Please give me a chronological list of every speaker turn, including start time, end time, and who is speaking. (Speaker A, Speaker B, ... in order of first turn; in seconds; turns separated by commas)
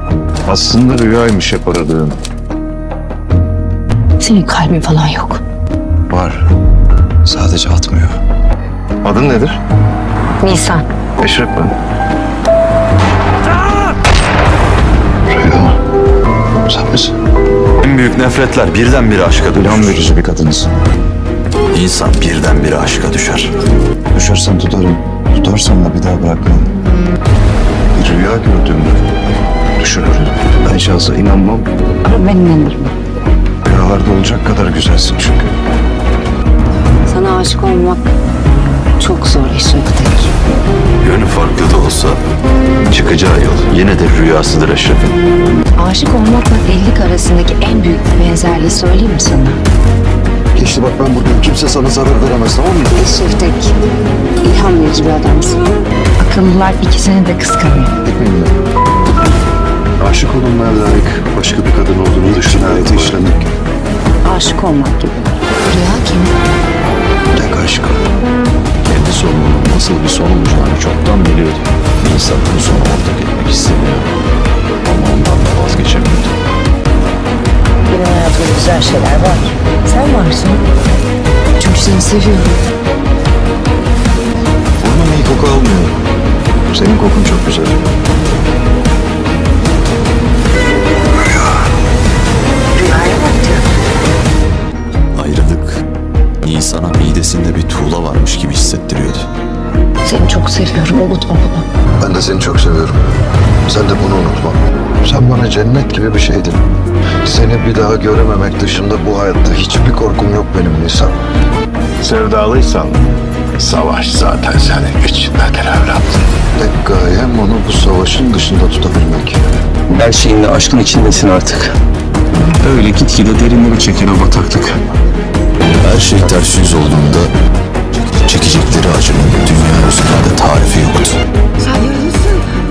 Speaker A: 0.5-2.2, Speaker B: 4.2-5.4, Speaker A: 6.1-6.4, Speaker A: 7.2-8.2, Speaker A: 9.0-9.6, Speaker B: 10.4-10.8, Speaker A: 11.2-11.7, Speaker A: 15.3-15.8, Speaker A: 16.7-17.1, Speaker C: 17.8-20.1, Speaker A: 19.6-20.7, Speaker C: 21.7-23.5, Speaker A: 24.1-26.7, Speaker A: 27.9-29.0, Speaker A: 29.8-31.7, Speaker B: 32.0-33.0, Speaker A: 33.6-35.5, Speaker B: 37.1-38.1, Speaker B: 39.0-40.3, Speaker C: 41.0-42.2, Speaker C: 42.9-45.2, Speaker B: 45.8-49.6, Speaker A: 50.5-53.0, Speaker B: 53.0-53.7, Speaker B: 54.4-55.6, Speaker B: 56.2-57.9, Speaker A: 58.0-58.5, Speaker A: 60.0-63.5, Speaker C: 62.5-63.1, Speaker B: 64.2-66.3, Speaker A: 67.3-68.0, Speaker C: 68.8-74.1, Speaker C: 74.8-76.4, Speaker B: 77.9-80.6, Speaker B: 81.6-82.6, Speaker A: 84.8-85.9, Speaker A: 86.7-87.8, Speaker B: 92.8-93.7, Speaker C: 95.1-95.8, Speaker C: 96.4-99.3, Speaker B: 100.0-101.7, Speaker A: 102.0-103.0, Speaker A: 103.7-106.6, Speaker A: 107.2-111.2, Speaker D: 112.0-113.0, Speaker D: 113.6-116.2, Speaker A: 116.6-119.4, Speaker E: 119.9-121.8, Speaker E: 122.6-124.8, Speaker C: 125.8-127.3, Speaker C: 128.2-131.2, Speaker B: 131.7-132.3